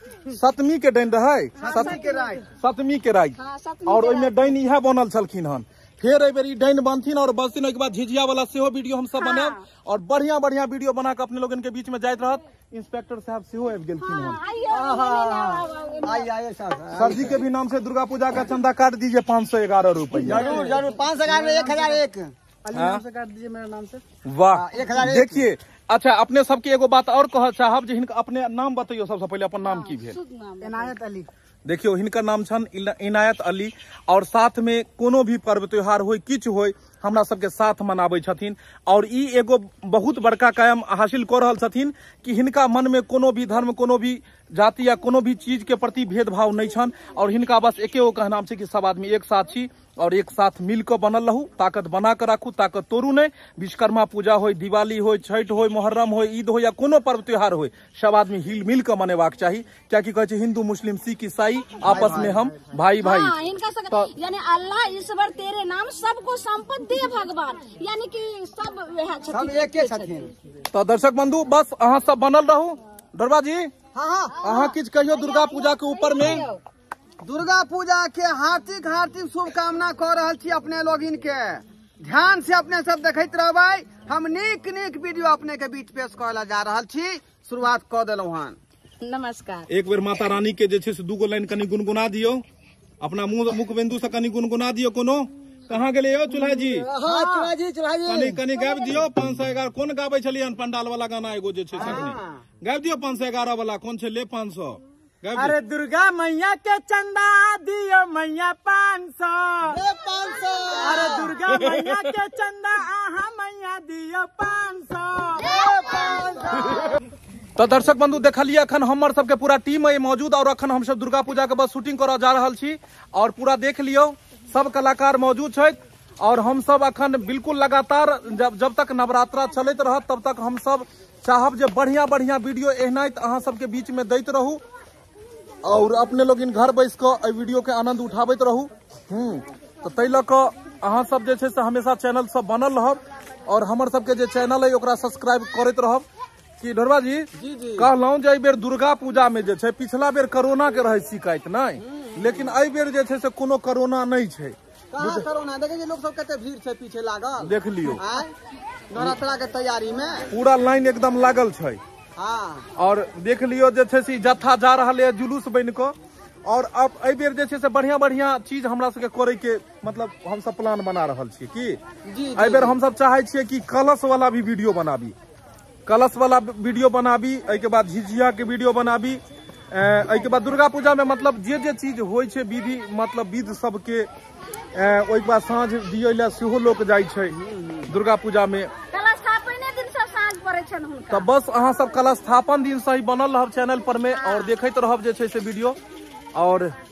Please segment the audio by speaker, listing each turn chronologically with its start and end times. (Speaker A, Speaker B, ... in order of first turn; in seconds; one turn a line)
Speaker A: 0.3-14.4
Speaker B: 1.6-2.5
Speaker C: 1.6-2.4
Speaker C: 3.4-4.5
Speaker C: 9.2-9.6
Speaker C: 14.0-16.3
Speaker D: 14.7-17.4
Speaker A: 16.9-20.5
Speaker D: 20.2-22.3
Speaker B: 20.3-20.8
Speaker A: 22.7-23.1
Speaker E: 23.7-24.0
Speaker A: 24.2-30.2
Speaker D: 24.6-25.4
Speaker C: 29.6-31.2
Speaker A: 31.6-63.4
Speaker B: 61.8-62.5
Speaker D: 61.9-62.4
Speaker C: 62.9-70.2
Speaker B: 69.3-70.3
Speaker A: 70.7-73.7
Speaker B: 73.9-74.4
Speaker C: 74.3-76.6
Speaker A: 74.4-76.5
Speaker B: 77.2-88.6
Speaker C: 89.0-89.7
Speaker A: 89.7-92.4
Speaker A: 93.0-96.9
Speaker D: 96.8-98.5
Speaker C: 97.0-97.5
Speaker A: 98.1-105.6
Speaker D: 101.8-102.2
Speaker E: 105.4-109.8
Speaker D: 109.7-111.4
Speaker C: 110.8-111.1
Speaker E: 110.9-115.5
Speaker A: 111.3-112.2
Speaker D: 115.4-116.9
Speaker C: 115.5-116.2
Speaker A: 117.6-134.6
Speaker A: 135.6-146.1
Speaker A: 146.6-155.3
Speaker B: 147.4-147.9
Speaker B: 152.0-152.2
Speaker B: 154.9-158.3
Speaker A: 157.4-158.0
Speaker B: 158.9-160.2
Speaker A: 160.3-161.8
Speaker B: 162.2-162.7
Speaker A: 162.8-171.8
Speaker B: 172.1-172.8
Speaker A: 172.3-175.2
Speaker A: 175.9-184.1
Speaker A: 184.7-188.7
Speaker C: 188.9-191.3
Speaker A: 191.1-195.8
Speaker C: 194.1-194.6
Speaker A: 196.3-196.7